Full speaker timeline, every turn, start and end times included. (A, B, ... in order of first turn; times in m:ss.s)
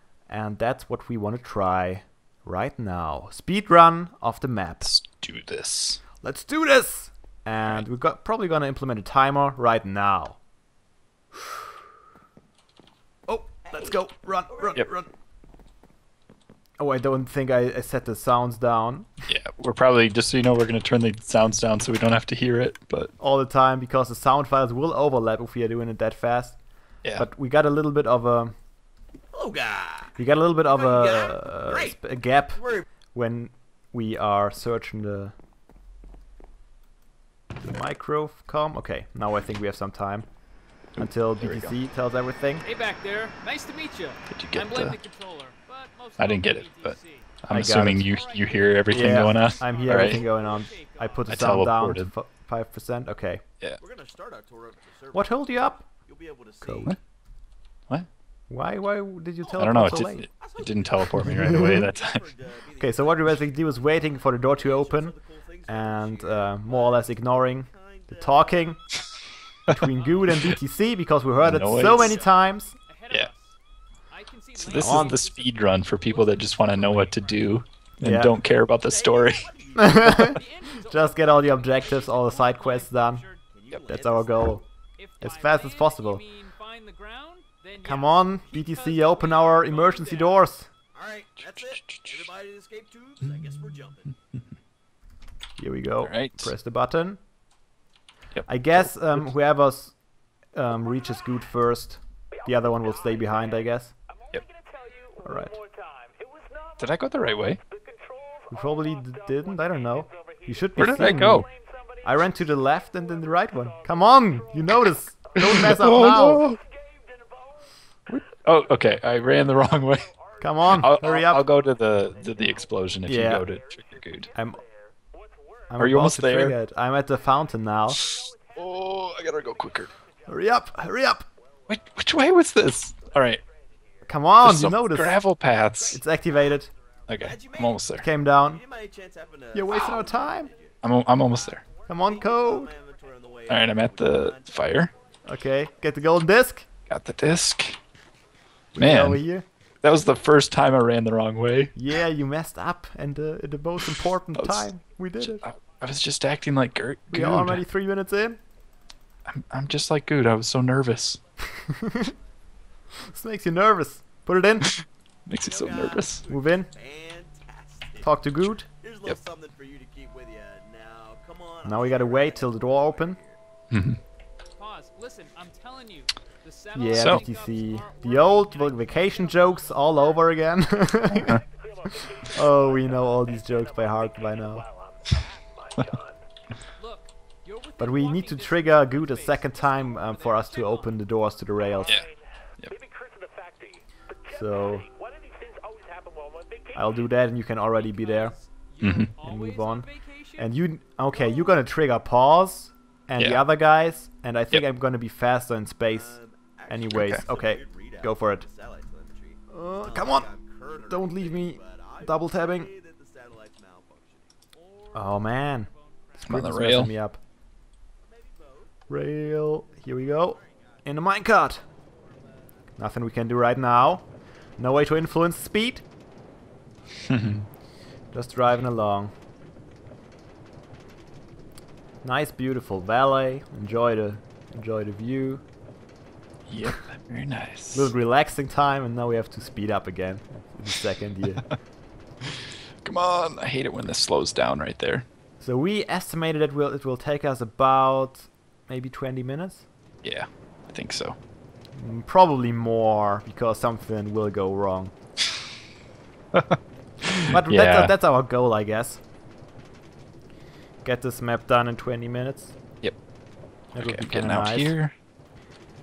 0:00.3-0:04.9 A
0:04.8-0:06.0 B
0:06.2-0:10.4 A
0:13.3-0:15.1 A
0:13.7-0:14.0 C
0:14.5-0:14.9 C
0:16.8-0:19.3 A
0:19.3-0:23.1 B
0:23.2-0:26.6 A
0:27.1-0:28.6 A
0:29.3-0:30.2 C
0:30.2-0:35.3 A
0:30.7-0:32.0 C
0:32.5-0:32.9 C
0:37.6-0:40.3 A
0:41.0-0:41.7 B
0:41.0-0:42.6 A
0:42.6-0:51.4 D
0:44.3-0:45.0 B
0:46.2-0:50.2 B
0:47.5-0:48.1 A
0:48.9-0:53.4 A
0:51.3-0:52.1 B
0:53.8-0:57.0 C
0:55.1-0:55.9 A
0:56.6-0:56.9 A
0:58.5-1:00.3 A
0:59.4-0:59.8 C
0:59.6-1:02.3 B
1:00.4-1:08.7 C
1:01.2-1:01.9 A
1:02.8-1:05.2 A
1:05.7-1:08.8 A
1:09.7-1:12.8 A
1:10.0-1:10.3 D
1:11.4-1:12.2 B
1:12.9-1:13.6 D
1:14.1-1:17.6 D
1:14.6-1:19.5 B
1:14.8-1:15.1 A
1:18.0-1:18.3 A
1:18.9-1:23.4 D
1:19.2-1:20.0 C
1:19.8-1:23.3 A
1:23.5-1:24.6 C
1:23.9-1:24.6 A
1:25.0-1:30.4 D
1:25.2-1:26.2 A
1:27.8-1:30.7 A
1:30.9-1:34.1 C
1:31.4-1:32.3 B
1:33.2-1:33.6 B
1:35.6-1:37.2 A
1:36.0-1:36.5 B
1:38.4-1:39.3 B
1:38.5-1:40.0 A
1:40.5-1:43.9 A
1:45.2-1:45.6 A
1:46.8-1:47.6 B
1:48.5-1:51.5 A
1:50.8-1:51.5 B
1:52.0-1:56.5 A
1:55.4-1:56.6 B
1:58.1-2:00.1 B
2:00.4-2:01.5 A
2:00.7-2:04.3 B
2:03.1-2:03.5 A
2:04.4-2:04.6 A
2:05.7-2:08.0 A
2:05.8-2:06.6 B
2:08.0-2:09.9 B
2:10.3-2:11.3 A
2:11.7-2:13.4 B
2:14.0-2:15.2 A
2:14.4-2:16.0 B
2:15.9-2:16.7 A
2:17.1-2:18.1 B
2:17.2-2:24.9 C
2:18.0-2:18.6 A
2:19.5-2:20.5 A
2:20.8-2:21.6 B
2:21.9-2:22.7 A
2:23.5-2:24.9 B
2:25.2-2:26.7 A
2:26.9-2:27.8 B
2:28.8-2:29.5 A
2:28.8-2:29.2 B
2:29.8-2:31.7 B
2:31.8-2:35.4 A
2:34.4-2:34.7 B
2:35.2-2:37.6 B
2:37.1-2:38.4 A
2:39.3-2:41.2 B
2:41.7-2:42.1 A
2:43.0-2:44.7 A
2:44.8-2:46.2 B
2:45.4-2:53.4 C
2:46.3-2:46.7 A
2:48.0-2:48.7 A
2:51.6-2:53.2 A
2:53.7-2:54.0 B
2:54.6-3:00.2 D
2:56.7-3:01.4 A
2:56.9-2:57.2 B
3:01.1-3:01.4 B
3:01.9-3:04.7 A
3:06.8-3:11.0 D
3:07.8-3:12.0 A
3:14.3-3:14.9 A
3:16.7-3:18.4 A
3:17.8-3:20.5 D
3:18.8-3:19.1 B
3:19.2-3:28.5 A
3:23.2-3:23.4 B
3:25.9-3:34.3 C
3:26.9-3:27.2 B
3:29.5-3:32.7 A
3:34.5-3:35.8 D
3:34.9-3:35.7 A
3:36.2-3:36.9 B
3:36.3-3:37.2 A
3:38.0-3:38.7 C
3:38.9-3:41.6 A
3:40.2-3:40.7 C
3:42.8-3:44.1 A
3:44.6-3:45.8 A
3:47.1-3:47.5 B
3:48.1-3:49.1 A
3:52.0-3:55.4 A
3:56.5-3:57.9 B
3:57.7-4:01.5 A
4:02.3-4:05.1 B
4:05.4-4:09.7 A
4:10.0-4:11.2 B
4:11.8-4:14.9 A
4:16.3-4:17.9 B
4:17.3-4:19.0 A
4:20.8-4:22.6 A
4:23.7-4:24.7 A
4:23.8-4:24.9 B